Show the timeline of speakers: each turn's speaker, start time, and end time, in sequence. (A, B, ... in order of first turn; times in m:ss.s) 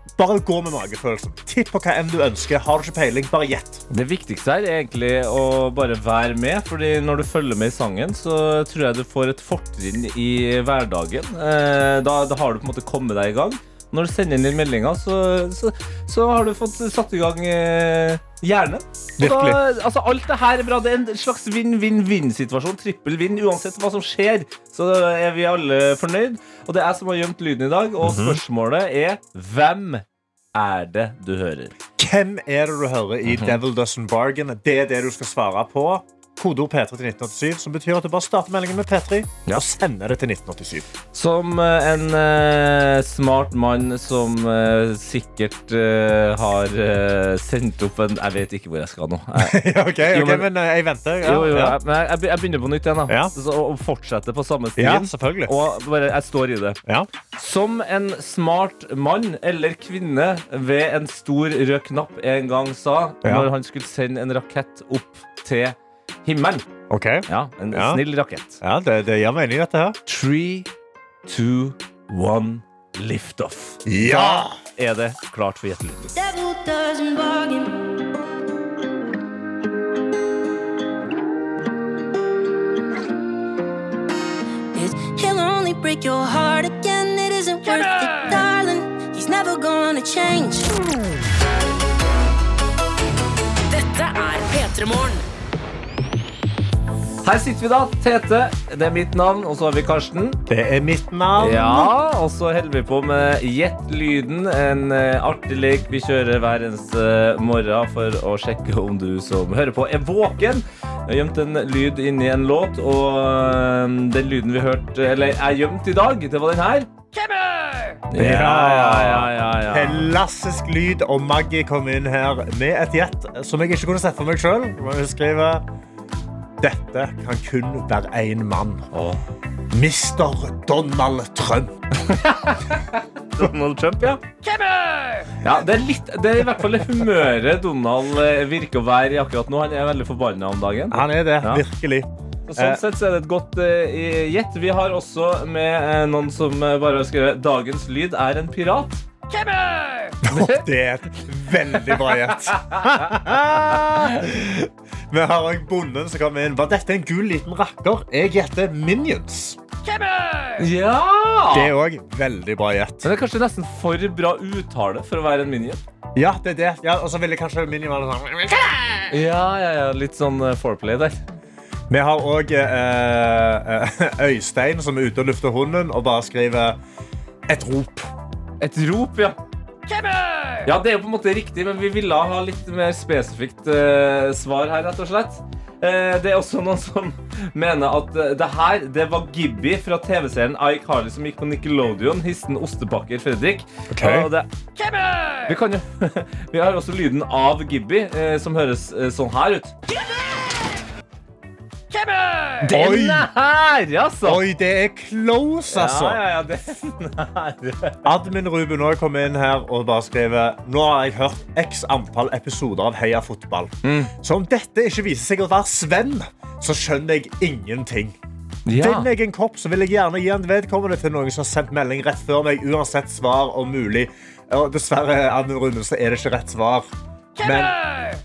0:00.2-0:03.8 A
0:03.9-0:30.0 B
0:19.2-0:19.6 A
0:28.0-0:28.4 A
0:30.5-0:31.7 B
0:32.0-0:40.9 A
0:33.3-0:33.6 B
0:41.1-0:50.5 B
0:49.4-0:51.8 A
0:51.2-0:56.8 B
0:53.1-0:53.3 A
0:54.8-0:55.5 A
0:57.4-1:06.7 B
1:03.2-1:03.5 A
1:06.9-1:08.0 A
1:07.3-1:08.6 B
1:08.6-1:10.0 A
1:10.0-1:10.7 B
1:11.3-1:16.2 B
1:13.8-1:14.6 A
1:16.1-1:18.0 C
1:24.7-1:30.8 C
1:33.7-1:35.2 C
1:37.2-1:40.4 B
1:40.5-1:41.9 A
1:41.4-1:57.1 B
1:58.1-2:00.2 B
1:58.2-2:05.6 A
2:06.6-2:08.9 A
2:08.9-2:09.2 B
2:09.7-2:11.8 A
2:12.1-2:14.4 B
2:15.4-2:21.6 B
2:20.9-2:22.8 A
2:22.5-2:29.1 B
2:30.2-2:39.6 A
2:30.2-2:30.6 B
2:31.8-2:32.8 B
2:40.6-2:41.7 B
2:41.5-2:43.1 A
2:43.0-2:45.8 B
2:46.1-2:49.2 A
2:49.1-2:51.3 B
2:51.9-2:56.8 A
2:57.5-2:58.1 A
2:58.6-2:59.4 B
3:00.6-3:19.8 B
3:13.9-3:14.3 A
3:22.6-3:24.4 B
3:22.6-3:23.3 A
3:24.2-3:26.2 A
3:25.7-3:28.0 B
3:28.0-3:38.2 A
3:33.8-3:34.1 B
3:38.6-3:39.1 B
3:38.7-3:47.8 A